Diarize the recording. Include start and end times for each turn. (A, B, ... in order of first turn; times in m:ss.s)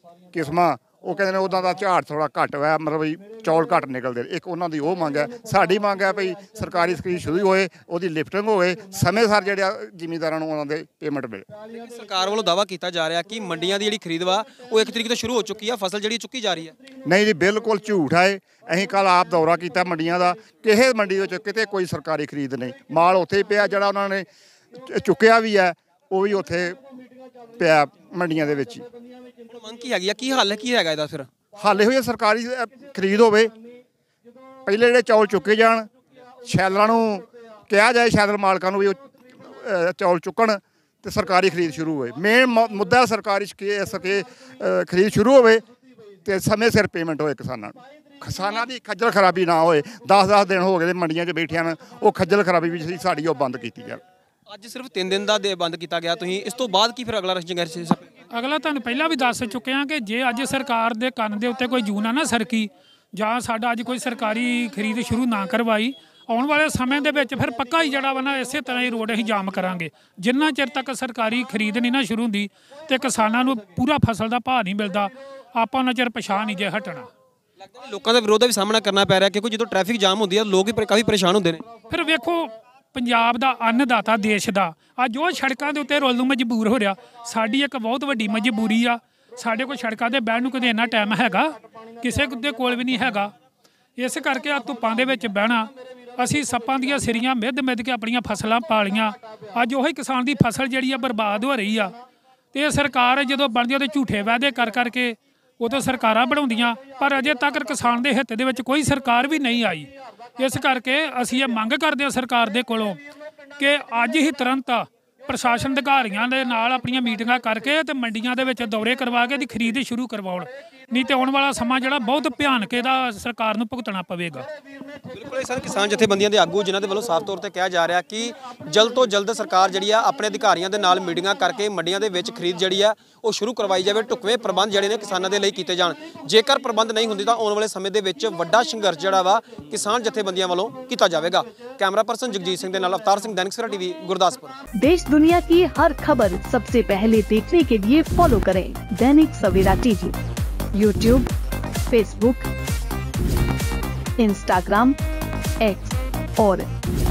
0:00.3-0:11.4 A
0:11.7-0:16.7 B
0:17.0-0:26.8 A
0:27.5-0:28.8 A
0:29.5-0:31.3 B
0:31.6-0:33.5 A
0:34.6-0:35.9 A
0:36.4-0:45.6 A
0:46.2-0:54.0 A
0:54.5-0:58.1 B
0:58.3-1:17.1 C
1:17.6-1:21.7 B
1:21.9-1:33.3 C
1:34.0-1:42.0 C
1:42.5-1:53.0 C
1:53.6-2:04.5 C
2:05.1-2:24.6 B
2:24.8-2:30.2 D
2:30.7-2:31.3 D
2:31.9-2:32.5 D
2:34.2-2:35.0 D
2:35.6-2:36.6 D